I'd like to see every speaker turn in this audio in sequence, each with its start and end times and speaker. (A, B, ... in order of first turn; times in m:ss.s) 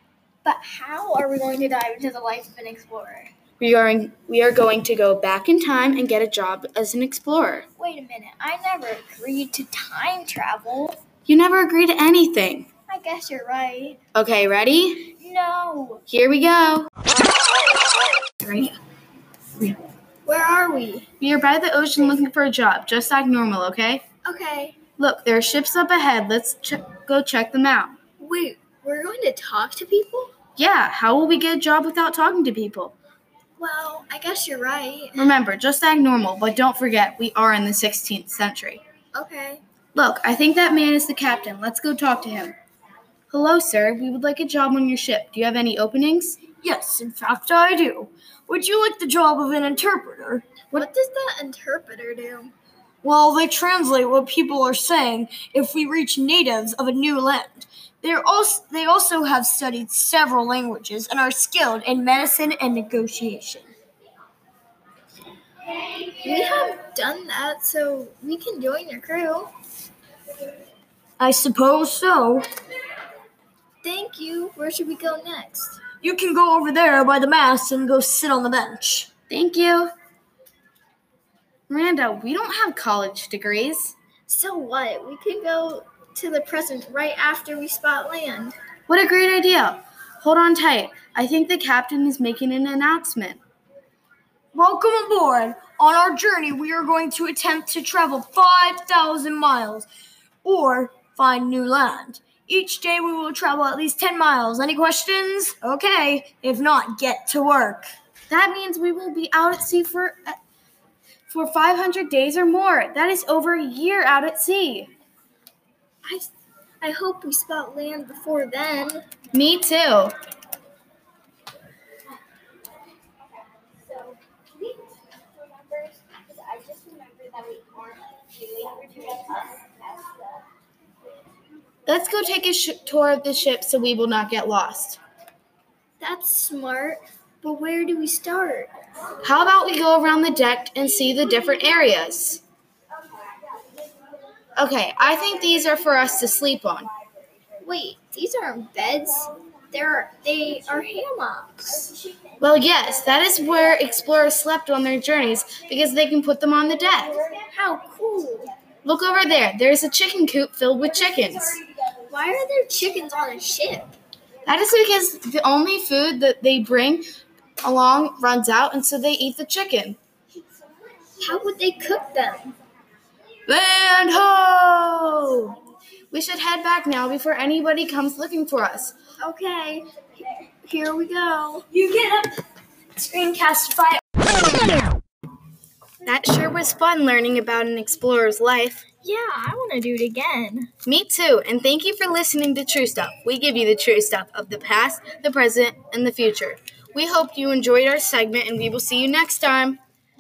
0:00.4-0:03.3 A
0:03.6-0:07.6 B
0:07.8-0:11.0 A
0:11.2-0:12.7 B
0:12.9-0:14.0 A
0:14.1-0:15.1 B
0:15.2-0:16.0 A
0:16.1-0:16.9 B
0:18.4-0:18.8 B
0:20.2-0:21.1 A
0:21.2-0:24.0 B
0:24.2-0:24.8 A
0:25.0-0:28.0 B
0:28.2-0:30.3 A
0:30.6-0:32.9 B
0:33.6-0:35.3 A
0:35.2-0:38.8 B
0:39.1-0:39.6 A
0:39.9-0:42.5 B
0:43.3-0:46.4 B
0:46.6-0:50.4 C
0:50.7-0:52.5 A
0:53.0-1:03.7 C
1:06.0-1:09.5 A
1:11.2-1:12.4 C
1:13.8-1:15.8 A
1:16.0-1:19.1 C
1:19.3-1:19.9 B
1:21.7-1:23.9 B
1:24.3-1:28.6 A
1:28.9-1:33.4 B
1:34.5-1:39.9 C
1:40.4-1:47.9 C
1:48.3-1:50.4 B
1:51.3-1:54.9 B
1:56.0-1:56.3 A
1:56.8-1:59.0 A
1:59.3-2:00.1 B
2:06.0-2:10.2 A
2:11.8-2:15.0 B
2:16.0-2:18.7 A
2:19.2-2:22.4 B
2:24.6-2:26.9 B
2:27.6-2:31.9 A
2:32.4-2:37.1 B
2:37.3-2:38.5 A
2:38.8-2:41.6 B
2:42.1-2:43.9 A
2:44.4-2:47.0 B
2:47.6-2:50.0 B
2:51.2-2:52.5 A
2:53.5-2:55.6 B
2:56.1-2:58.9 B
2:59.2-3:01.9 A
3:01.9-3:02.2 C
3:03.0-3:04.0 C
3:06.0-3:08.8 B
3:09.0-3:10.7 A
3:10.8-3:19.8 B